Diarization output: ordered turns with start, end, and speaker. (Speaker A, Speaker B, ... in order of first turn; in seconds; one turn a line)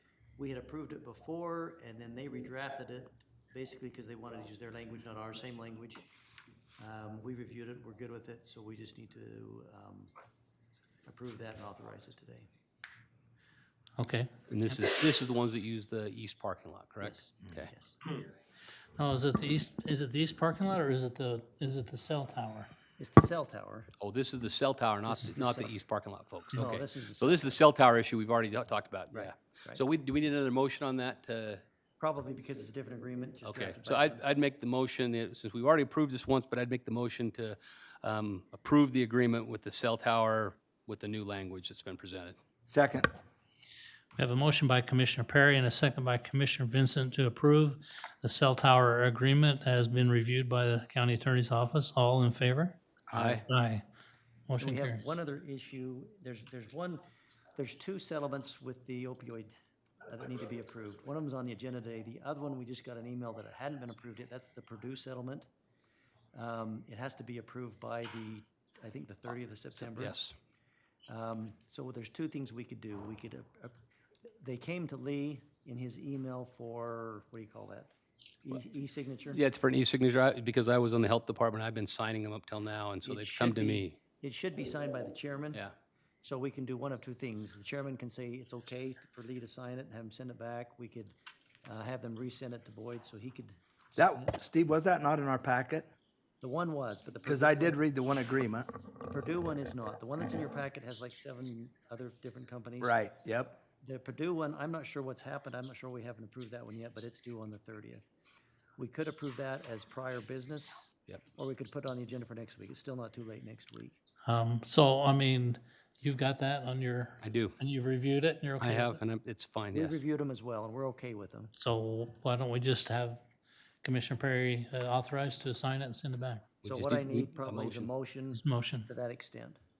Speaker A: 0.4-6.0
Speaker A: 6.8-10.1
Speaker A: 11.0-12.5
Speaker B: 14.0-14.5
Speaker C: 14.5-17.7
Speaker A: 17.0-18.0
Speaker B: 19.0-22.7
Speaker A: 23.0-23.9
Speaker C: 24.0-31.6
Speaker A: 25.1-25.8
Speaker A: 26.5-27.5
Speaker A: 29.1-29.8
Speaker A: 32.0-34.2
Speaker C: 33.4-42.4
Speaker D: 42.6-43.1
Speaker B: 44.2-53.8
Speaker C: 53.1-53.4
Speaker B: 54.5-55.0
Speaker A: 54.6-57.0
Speaker A: 57.5-59.5
Speaker A: 60.0-65.5
Speaker A: 66.3-70.2
Speaker C: 69.8-70.3
Speaker A: 71.1-73.7
Speaker A: 74.3-79.4
Speaker C: 79.3-84.0
Speaker A: 83.0-85.6
Speaker A: 86.2-91.1
Speaker A: 91.6-94.2
Speaker D: 94.0-95.9
Speaker A: 96.4-97.8
Speaker D: 97.2-98.7
Speaker A: 99.0-102.9
Speaker D: 102.8-103.6
Speaker A: 103.8-108.0
Speaker A: 108.8-114.0
Speaker B: 114.2-119.0
Speaker C: 117.2-117.5
Speaker C: 118.6-120.0
Speaker A: 119.7-121.5
Speaker B: 121.5-123.2
Speaker B: 123.8-126.4
Speaker C: 126.6-127.9
Speaker A: 126.6-129.6
Speaker B: 128.3-128.9